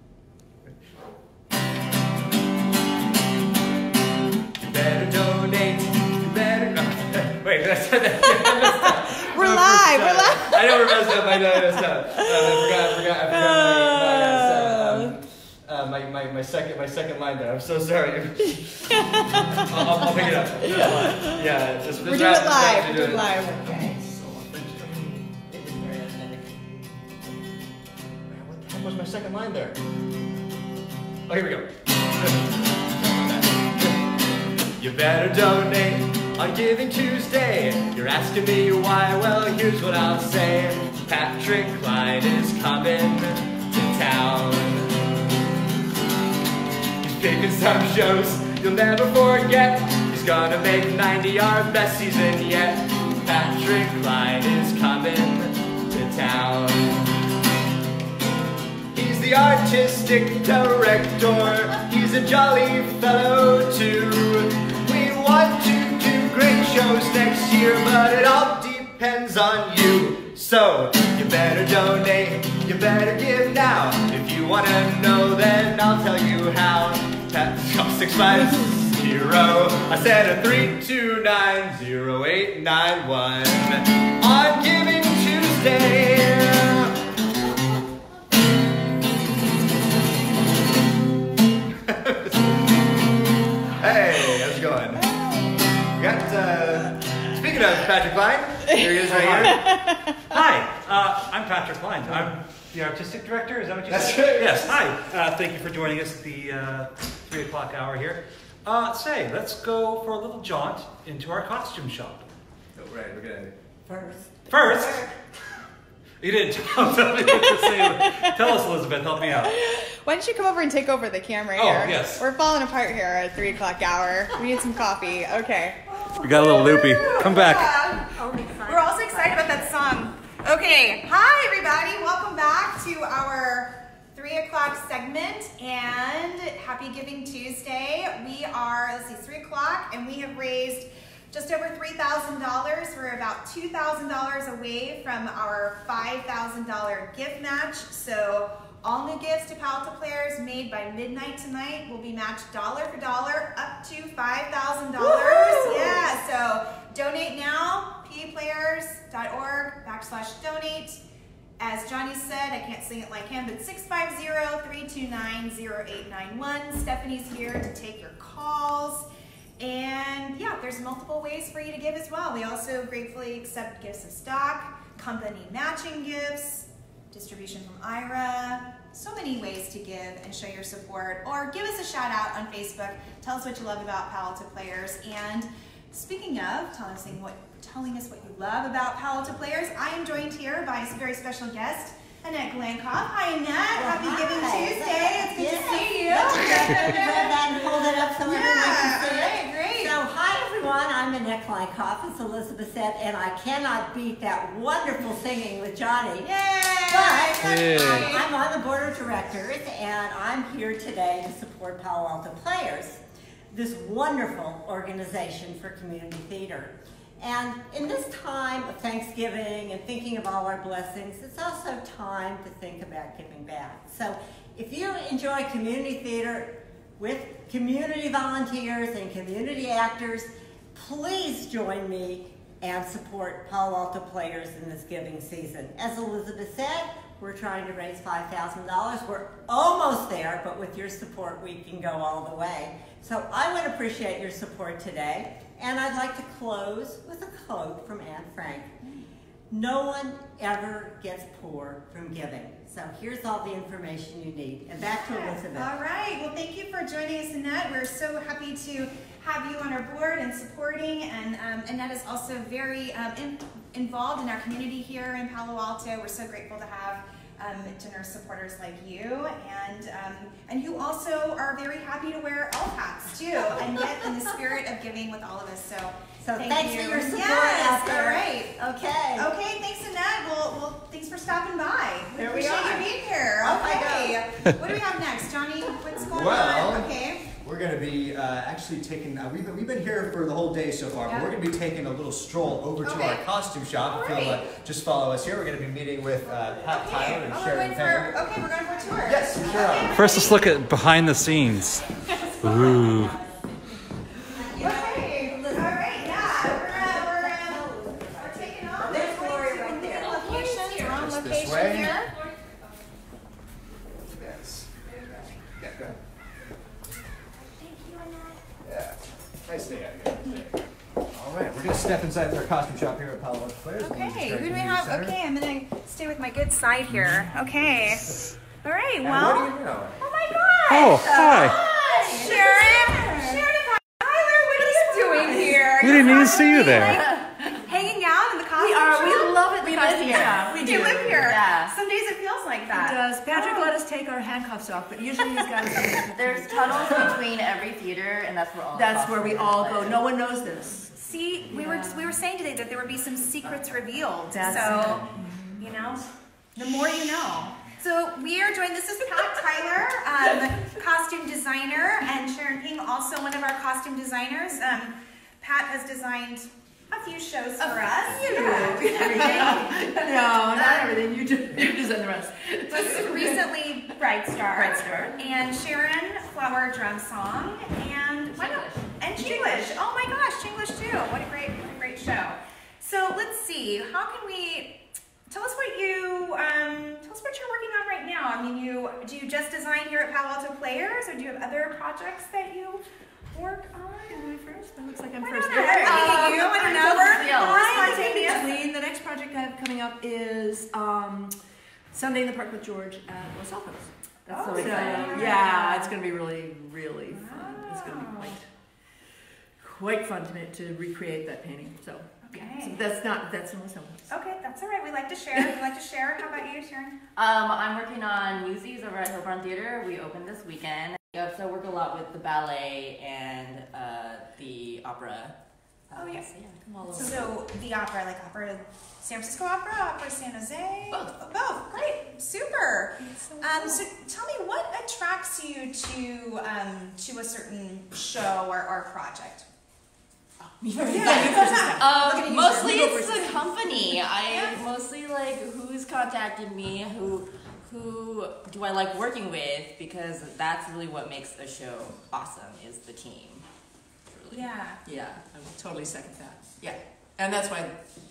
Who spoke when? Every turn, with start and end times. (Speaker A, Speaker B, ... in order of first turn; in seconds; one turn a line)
Speaker A: 4.6-26.1
Speaker B: 8.3-15.1
Speaker B: 18.9-21.4
Speaker B: 22.0-23.7
Speaker C: 25.8-26.5
Speaker A: 28.3-29.8
Speaker A: 31.3-34.1
Speaker A: 34.8-45.0
Speaker A: 47.0-57.0
Speaker A: 58.9-86.9
Speaker A: 91.8-92.6
Speaker A: 93.8-95.0
Speaker A: 96.0-99.7
Speaker D: 99.1-99.7
Speaker D: 100.2-112.3
Speaker A: 103.9-104.8
Speaker A: 112.8-113.5
Speaker E: 113.9-114.1
Speaker D: 114.5-115.1
Speaker D: 116.2-119.6
Speaker B: 117.5-118.3
Speaker B: 119.5-161.0
Speaker D: 121.5-122.2
Speaker D: 126.2-127.9
Speaker F: 127.2-127.5
Speaker F: 128.0-129.8
Speaker B: 161.6-169.1
Speaker B: 169.6-200.0
Speaker E: 193.7-213.0
Speaker B: 206.3-208.3
Speaker D: 207.4-208.1
Speaker E: 213.5-248.7
Speaker E: 249.5-255.7
Speaker B: 254.8-278.5
Speaker E: 276.2-279.3
Speaker B: 279.1-287.3
Speaker E: 282.1-284.2
Speaker A: 286.0-298.2
Speaker B: 291.1-291.3
Speaker B: 292.8-293.2
Speaker B: 293.8-294.5
Speaker B: 296.6-300.6
Speaker A: 299.1-300.1
Speaker E: 299.4-299.9
Speaker D: 299.9-301.9
Speaker B: 302.2-302.7
Speaker E: 302.4-303.1
Speaker D: 302.4-303.1
Speaker E: 304.3-310.8
Speaker B: 304.5-312.1
Speaker A: 310.8-312.0
Speaker A: 314.1-314.7
Speaker A: 315.6-315.9
Speaker B: 317.5-318.4
Speaker A: 318.6-320.6
Speaker A: 321.1-325.1
Speaker B: 323.8-339.5
Speaker A: 329.0-330.0
Speaker D: 330.7-331.6
Speaker F: 331.1-331.4
Speaker E: 331.5-332.3
Speaker F: 332.2-333.4
Speaker F: 335.2-335.6
Speaker D: 335.8-337.0
Speaker F: 338.6-341.4
Speaker C: 339.6-341.7
Speaker B: 340.4-343.7
Speaker F: 342.7-347.2
Speaker C: 346.1-350.0
Speaker F: 348.7-351.0
Speaker B: 351.0-356.0
Speaker F: 351.5-352.1
Speaker F: 354.3-355.7
Speaker B: 356.6-371.0
Speaker F: 367.6-373.5
Speaker C: 368.9-369.7
Speaker B: 372.7-394.3
Speaker F: 374.5-375.1
Speaker C: 378.3-378.9
Speaker F: 379.1-379.8
Speaker F: 394.1-401.3
Speaker B: 395.2-398.5
Speaker C: 395.6-397.9
Speaker F: 401.9-403.9
Speaker C: 404.2-405.4
Speaker B: 404.3-405.9
Speaker F: 404.5-408.5
Speaker B: 407.1-408.3
Speaker F: 409.6-414.1
Speaker B: 412.2-412.8
Speaker B: 414.1-417.0
Speaker C: 417.1-425.4
Speaker C: 425.9-427.3
Speaker B: 425.9-426.2
Speaker B: 426.9-439.5
Speaker C: 430.9-431.1
Speaker C: 440.6-453.4
Speaker F: 440.8-443.4
Speaker B: 440.9-441.8
Speaker B: 444.3-444.5
Speaker C: 454.1-454.5
Speaker B: 454.3-454.8
Speaker F: 454.9-457.9